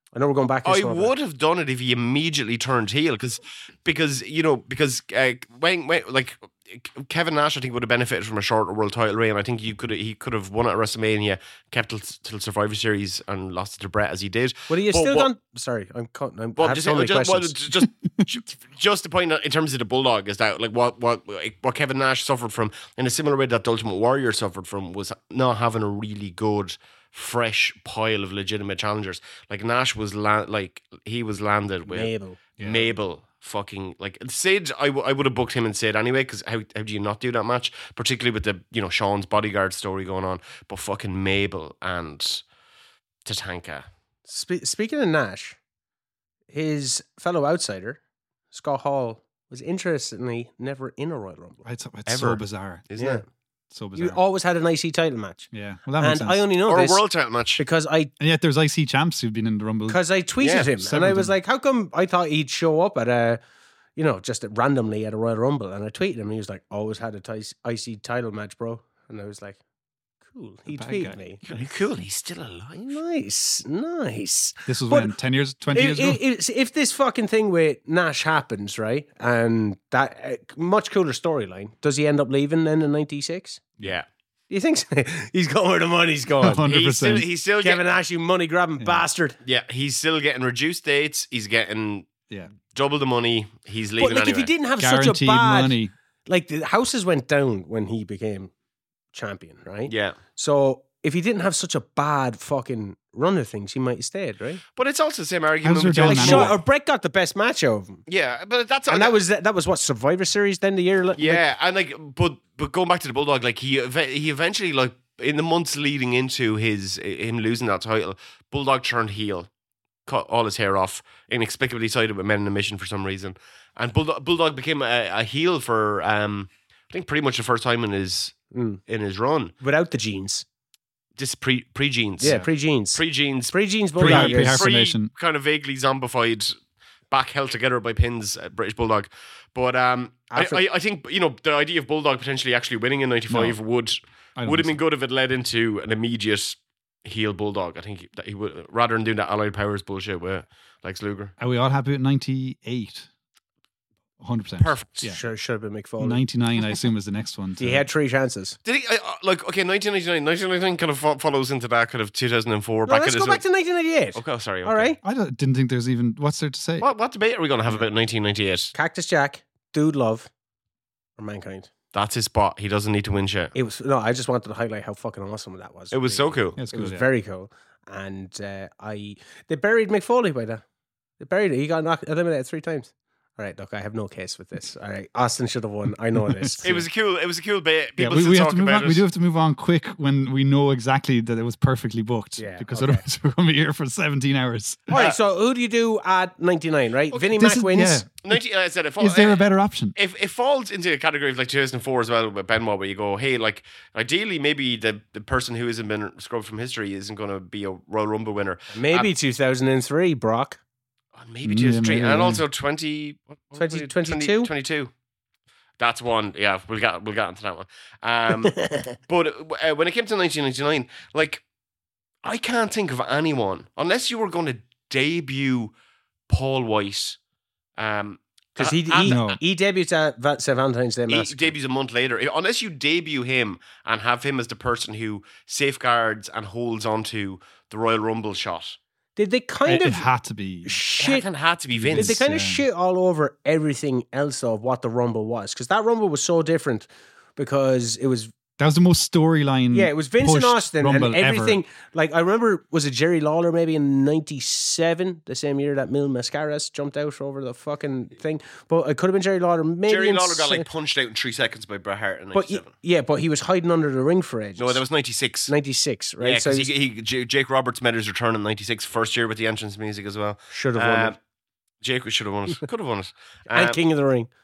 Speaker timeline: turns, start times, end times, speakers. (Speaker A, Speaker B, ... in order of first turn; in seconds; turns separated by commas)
Speaker A: 0.1-1.1, Speaker B: 0.6-15.3, Speaker A: 14.7-17.6, Speaker B: 16.6-42.4, Speaker A: 31.9-32.4, Speaker C: 32.6-32.9, Speaker B: 43.2-43.8, Speaker A: 44.3-45.6, Speaker A: 46.5-51.6, Speaker C: 51.6-52.9, Speaker B: 52.0-53.2, Speaker A: 53.0-53.2, Speaker C: 53.7-54.2, Speaker A: 53.9-55.5, Speaker C: 55.5-56.4, Speaker A: 56.0-57.0, Speaker B: 56.7-57.6, Speaker A: 57.6-58.1, Speaker C: 58.2-60.0, Speaker A: 59.9-63.4, Speaker B: 60.4-60.8, Speaker C: 60.8-61.3, Speaker A: 64.0-69.6, Speaker A: 70.3-71.4, Speaker C: 70.7-71.2, Speaker B: 71.4-73.0, Speaker A: 72.8-75.1, Speaker C: 74.7-76.2, Speaker A: 75.7-83.6, Speaker A: 84.5-86.6, Speaker C: 86.4-87.2, Speaker B: 86.6-87.8, Speaker A: 87.6-89.4, Speaker B: 89.4-92.1, Speaker B: 92.7-94.5, Speaker A: 94.0-98.5, Speaker C: 94.8-95.9, Speaker A: 99.1-104.6, Speaker B: 99.9-100.2, Speaker B: 104.7-106.5, Speaker C: 105.6-106.5, Speaker A: 106.0-108.0, Speaker B: 108.1-109.2, Speaker A: 108.9-111.4, Speaker B: 111.2-119.5, Speaker B: 120.0-129.5, Speaker A: 128.5-128.8, Speaker A: 129.6-130.4, Speaker B: 131.2-132.4, Speaker A: 132.2-133.0, Speaker C: 132.2-132.5, Speaker B: 132.9-136.5, Speaker A: 133.5-134.7, Speaker C: 134.0-135.1, Speaker B: 137.1-151.3, Speaker A: 140.3-140.6, Speaker C: 143.3-143.6, Speaker C: 144.4-144.7, Speaker C: 151.4-153.1, Speaker C: 154.2-155.2, Speaker B: 154.6-155.1, Speaker A: 155.1-156.2, Speaker C: 156.0-157.9, Speaker A: 157.6-158.6, Speaker B: 158.6-163.4, Speaker A: 162.9-165.0, Speaker B: 164.2-164.9, Speaker C: 165.0-166.8, Speaker B: 166.8-168.7, Speaker A: 168.7-170.3, Speaker A: 171.2-171.7, Speaker B: 171.9-173.5, Speaker A: 173.5-180.6, Speaker B: 175.9-176.6, Speaker C: 176.6-177.1, Speaker A: 181.2-186.7, Speaker C: 186.1-186.8, Speaker B: 186.6-189.0, Speaker C: 188.0-195.0, Speaker A: 192.4-193.0, Speaker A: 194.9-198.0, Speaker C: 197.1-198.4, Speaker B: 198.2-199.4, Speaker C: 199.0-199.9, Speaker B: 199.9-209.1, Speaker A: 208.7-210.6, Speaker B: 211.2-214.9, Speaker C: 211.4-212.4, Speaker A: 213.5-214.5, Speaker B: 215.8-221.4, Speaker A: 218.3-218.9, Speaker B: 222.2-225.7, Speaker B: 226.3-227.2, Speaker B: 227.8-229.3, Speaker A: 228.6-231.5, Speaker C: 229.0-229.4, Speaker B: 231.1-238.8, Speaker A: 239.2-240.0, Speaker C: 239.7-240.8, Speaker A: 240.6-241.3, Speaker B: 241.0-242.2, Speaker C: 241.8-242.6, Speaker A: 241.9-248.3, Speaker C: 248.6-251.6, Speaker A: 249.7-260.6, Speaker B: 259.9-262.7, Speaker A: 262.3-264.8, Speaker B: 264.6-265.5, Speaker A: 265.5-266.7, Speaker B: 266.2-271.2, Speaker A: 270.5-271.1, Speaker B: 271.8-273.8, Speaker A: 273.5-274.3